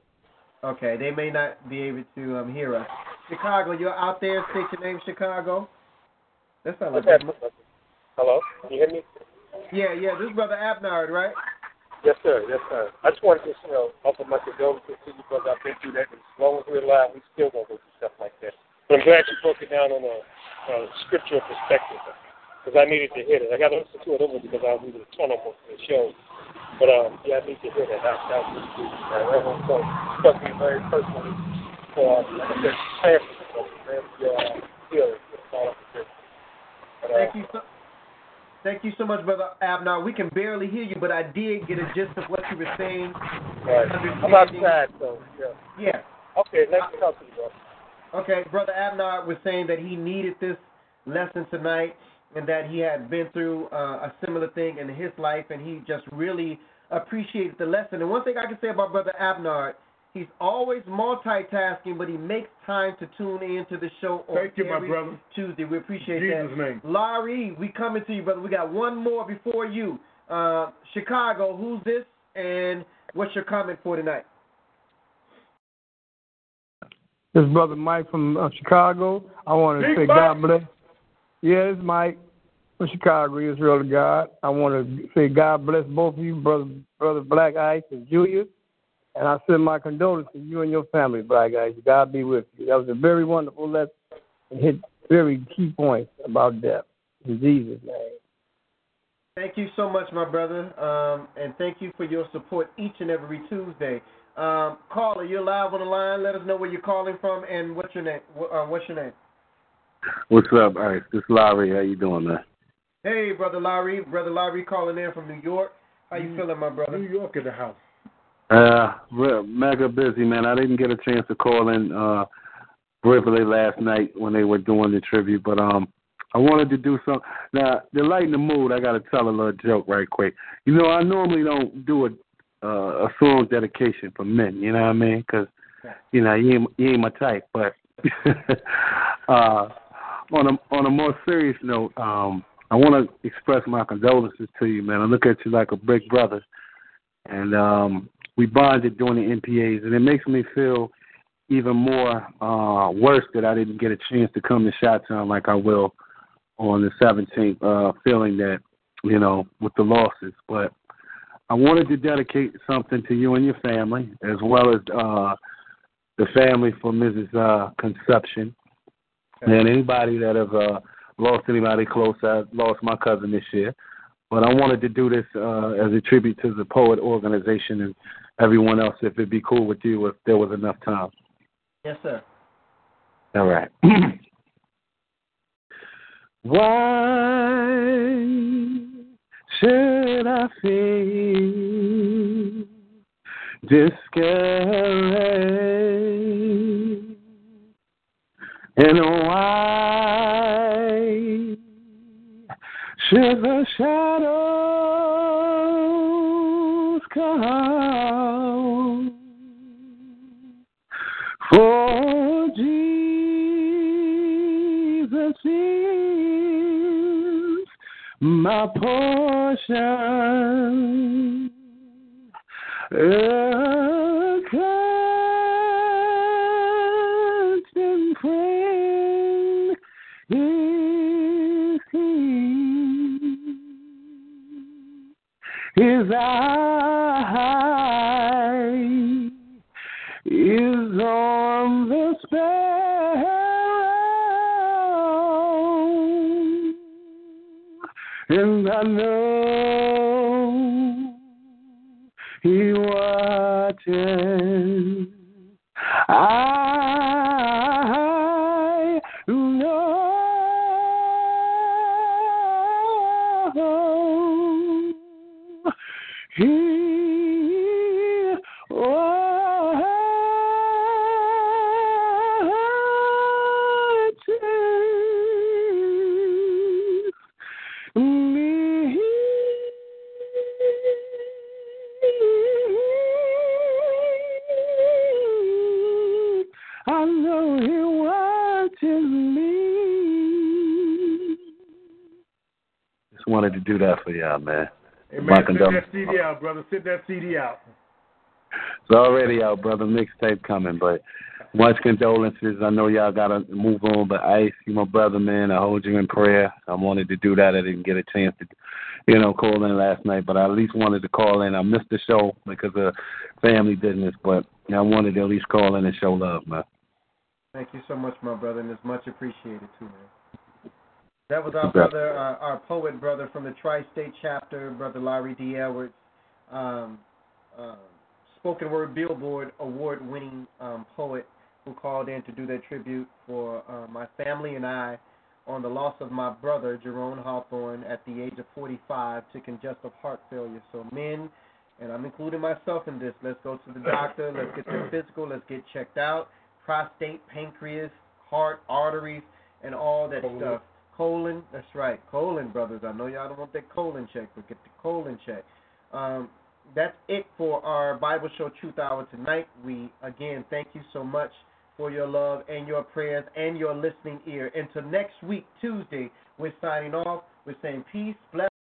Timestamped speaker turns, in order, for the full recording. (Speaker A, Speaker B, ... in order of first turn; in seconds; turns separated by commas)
Speaker A: 0.6-5.7, Speaker A: 6.6-7.3, Speaker B: 6.9-7.5, Speaker B: 8.2-9.1, Speaker A: 9.7-11.4, Speaker B: 12.0-22.1, Speaker B: 22.6-26.1, Speaker B: 26.8-31.4, Speaker B: 31.9-36.1, Speaker B: 37.0-37.3, Speaker A: 37.1-37.6, Speaker A: 38.6-43.2, Speaker B: 43.6-45.6, Speaker A: 43.8-44.8, Speaker A: 45.8-46.0, Speaker B: 46.4-47.5, Speaker A: 48.1-74.3, Speaker C: 64.3-65.2, Speaker C: 66.0-66.8, Speaker D: 77.3-80.7, Speaker C: 79.8-80.4, Speaker D: 81.4-82.2, Speaker D: 82.8-88.5, Speaker D: 89.2-94.0, Speaker D: 94.5-98.2, Speaker A: 99.3-109.1, Speaker E: 110.3-112.4, Speaker A: 113.0-117.0, Speaker C: 116.1-117.8, Speaker E: 118.5-122.3, Speaker E: 123.0-135.5, Speaker E: 136.1-139.7, Speaker E: 140.3-146.4, Speaker E: 147.2-150.9, Speaker E: 151.5-155.9, Speaker E: 156.6-160.7, Speaker E: 161.5-165.4, Speaker E: 166.2-168.5, Speaker E: 169.4-173.7, Speaker E: 174.3-181.1, Speaker A: 181.8-182.2, Speaker E: 183.3-184.2, Speaker E: 186.4-188.0, Speaker E: 189.5-192.0, Speaker E: 193.7-196.3, Speaker E: 198.8-201.5, Speaker E: 203.0-205.6, Speaker E: 207.1-209.1, Speaker E: 211.4-213.7, Speaker E: 215.0-216.7, Speaker E: 218.2-220.9, Speaker E: 222.9-226.2, Speaker E: 227.7-229.8, Speaker E: 230.3-233.5, Speaker E: 235.7-239.3, Speaker E: 240.2-246.7, Speaker E: 248.3-251.1, Speaker E: 252.4-255.1, Speaker E: 256.1-264.9, Speaker E: 266.3-271.6, Speaker E: 272.2-277.0, Speaker E: 277.9-279.8, Speaker E: 280.6-281.0, Speaker E: 282.0-291.3, Speaker E: 293.1-295.9, Speaker C: 295.1-297.6, Speaker E: 298.9-301.0, Speaker E: 301.5-308.5, Speaker E: 309.1-316.6, Speaker A: 317.5-320.1, Speaker A: 321.3-325.9, Speaker A: 326.5-327.0, Speaker A: 327.5-368.5, Speaker C: 350.2-350.6